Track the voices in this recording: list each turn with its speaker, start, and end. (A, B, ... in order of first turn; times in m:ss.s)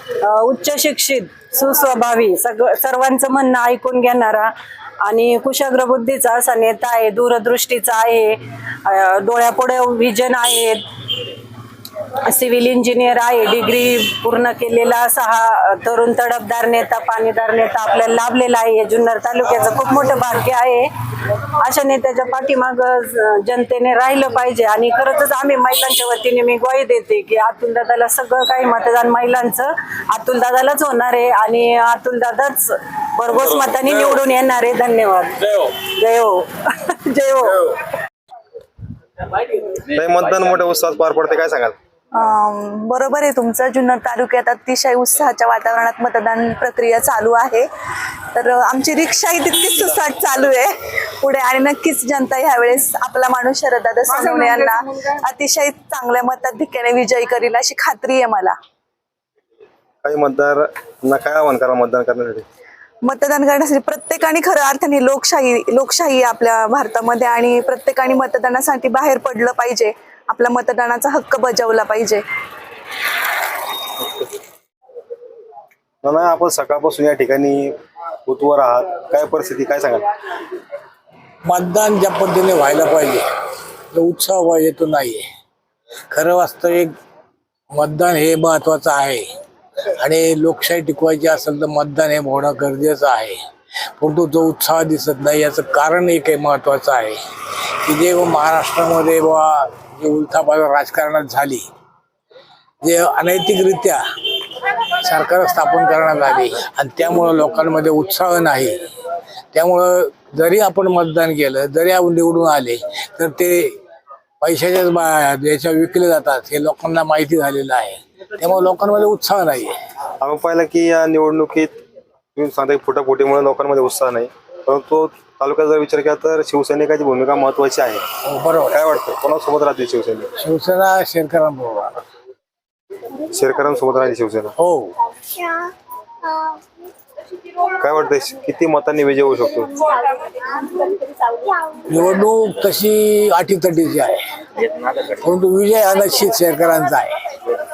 0:00.2-0:04.5 A
0:05.0-0:10.8 A
0:12.2-0:20.9 A
0:21.5-0:37.8 A
0:39.9-0:41.8 B
0:42.2-0:47.7 C
0:48.3-0:58.6 C
1:00.0-1:02.5 B
1:03.0-1:12.2 C
1:16.0-1:17.7 B
1:18.3-1:20.1 B
1:21.5-1:23.2 D
1:23.9-1:25.3 D
1:26.1-1:26.9 D
1:27.8-1:29.3 D
1:30.0-1:33.4 D
1:34.0-1:37.2 D
1:37.8-1:41.7 D
1:42.8-1:44.0 D
1:45.0-1:48.8 D
1:49.5-1:53.8 D
1:54.4-1:59.8 D
2:00.2-2:01.8 B
2:02.4-2:08.0 B
2:08.7-2:10.3 B
2:10.5-2:11.9 D
2:13.2-2:14.5 B
2:14.6-2:15.0 D
2:17.8-2:19.8 B
2:21.9-2:24.3 D
2:25.2-2:27.1 D